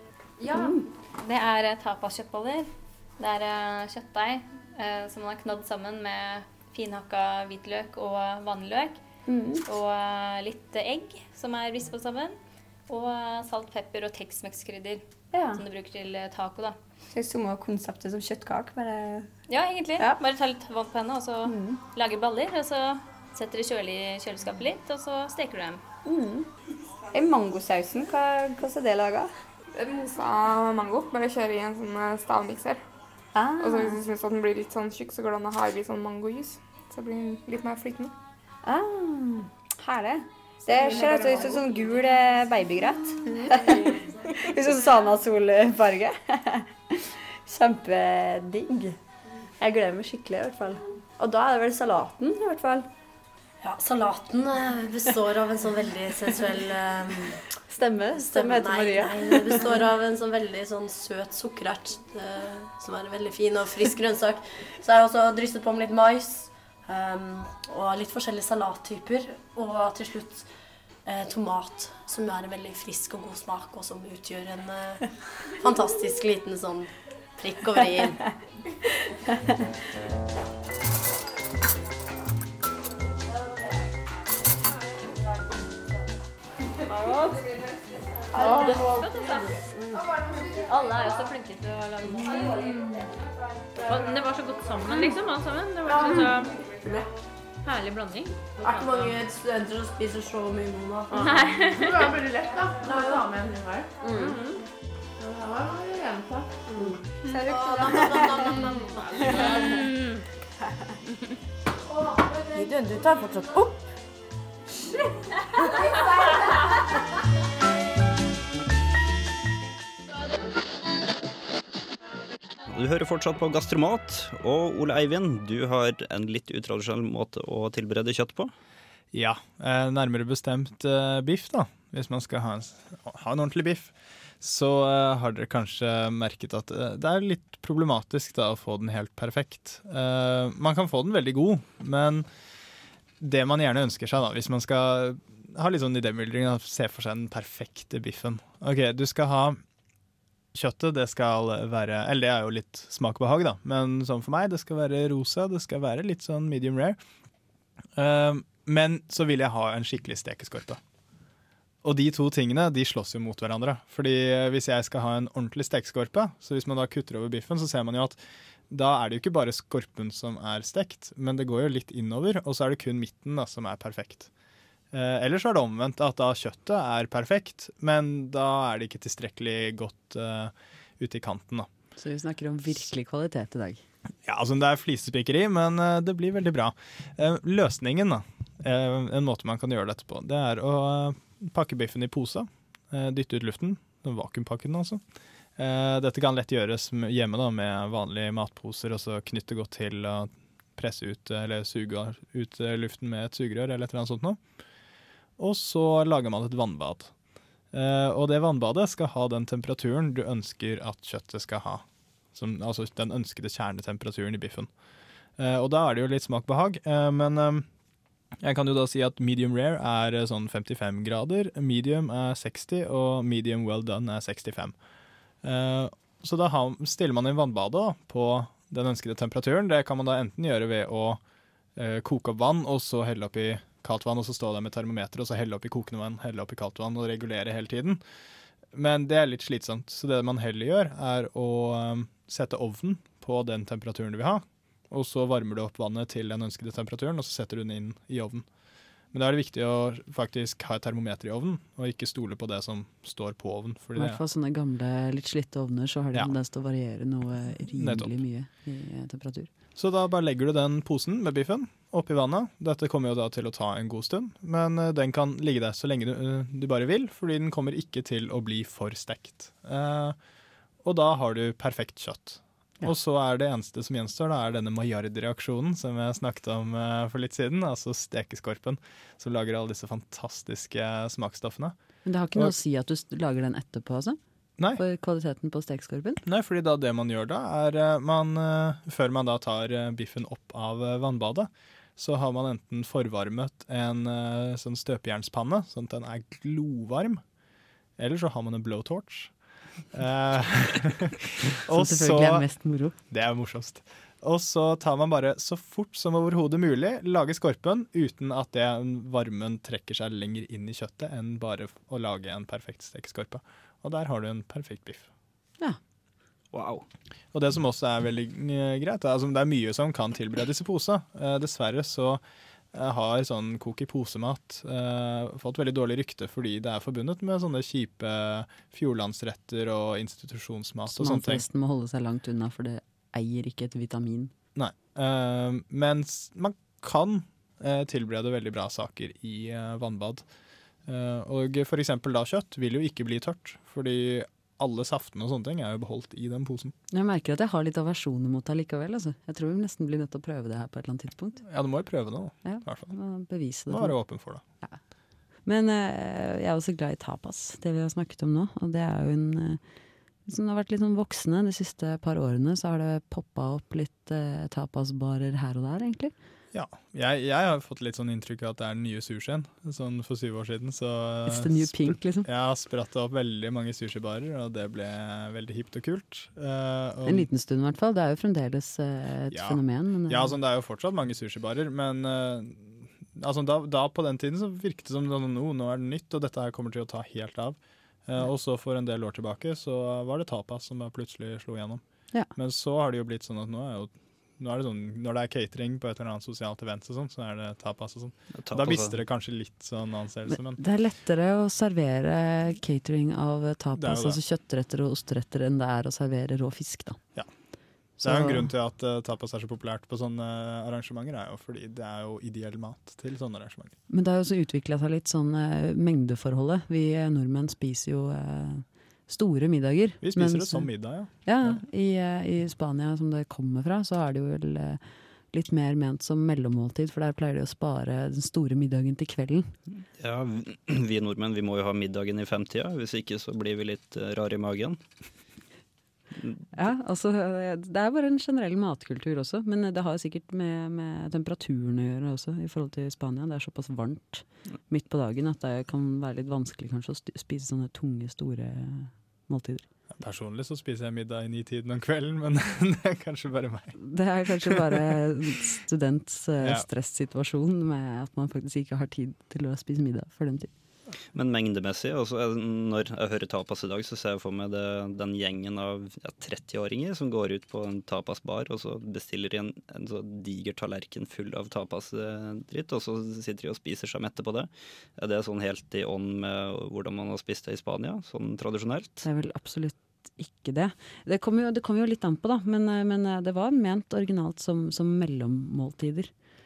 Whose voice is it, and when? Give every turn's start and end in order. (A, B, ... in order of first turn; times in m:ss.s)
0:00.5-0:00.8 A
0:00.5-0:09.0 B
0:09.3-0:09.6 A
0:09.7-0:15.0 B
0:15.3-0:15.6 A
0:15.5-0:16.8 B
0:17.1-0:19.3 A
0:19.5-0:25.8 B
0:21.5-0:21.8 A
0:26.1-0:26.5 A
0:27.1-0:29.3 A
0:29.7-0:32.8 C
0:33.3-0:34.0 A
0:33.6-0:38.1 C
0:38.6-0:49.0 A
0:40.7-0:41.6 C
0:43.3-0:43.8 C
0:49.6-0:52.9 A
0:53.6-0:57.4 D
0:57.7-0:59.8 A
0:58.1-1:10.5 D
1:11.0-1:18.2 D
1:26.8-1:27.5 B
1:28.3-1:29.6 B
1:28.4-1:30.1 D
1:30.6-1:32.8 B
1:32.2-1:32.5 D
1:33.8-1:36.6 B
1:35.8-1:37.1 D
1:36.6-1:37.0 C
1:37.6-1:39.1 B
1:38.6-1:42.2 D
1:41.3-1:41.9 B
1:41.8-1:43.9 E
1:42.8-1:43.4 D
1:44.0-1:44.4 D
1:45.4-1:46.5 E
1:46.7-1:49.8 D
1:47.3-1:48.6 A
1:49.2-1:49.7 E
1:52.5-1:53.8 D
1:56.0-1:56.3 D
2:02.7-2:08.5 F
2:09.1-2:22.3 G
2:23.2-2:29.6 G
2:30.5-2:37.0 G
2:38.0-2:40.8 G
2:41.8-2:54.3 G
2:54.9-3:01.7 G
3:02.0-3:03.8 H
3:04.2-3:15.0 G
3:15.6-3:24.4 G
3:25.4-3:27.2 G
3:27.7-3:34.7 G
3:35.4-3:37.7 G
3:38.4-3:44.8 G
3:45.4-3:51.2 G
3:51.8-3:58.0 G
3:58.7-4:08.5 G
4:09.1-4:14.2 G
4:14.0-4:19.5 H
4:17.7-4:18.1 G
4:19.8-4:30.2 G
4:30.8-4:41.8 G
4:42.0-4:44.2 H
4:44.8-4:46.2 H
4:46.2-4:57.2 G
4:58.0-4:59.3 G
4:59.9-5:02.5 G
5:01.7-5:03.0 H
5:03.1-5:15.1 G
5:16.5-5:16.8 F
5:17.3-5:22.2 G
5:22.7-5:31.4 G
5:30.9-5:34.3 H
5:34.6-5:40.3 G
5:40.9-5:46.8 G
5:46.9-5:51.4 H
5:51.5-5:53.0 G
5:52.4-5:54.8 H
5:53.7-5:54.4 G
5:55.4-5:59.6 H
6:00.3-6:06.1 H
6:06.5-6:17.3 G
6:11.3-6:12.3 H
6:17.0-6:20.4 H
6:19.3-6:31.8 G
6:32.3-6:40.6 G
6:38.4-6:39.0 F
6:40.3-6:47.0 H
6:43.8-6:44.2 G
6:48.0-6:48.5 H
6:48.0-6:53.8 G
6:53.9-7:09.5 H
7:00.0-7:01.6 G
7:10.0-7:14.8 F
7:16.5-7:29.7 H
7:30.0-7:33.8 G
7:33.8-7:40.5 H
7:36.4-7:36.7 G
7:41.1-7:59.0 F
7:59.0-8:06.1 H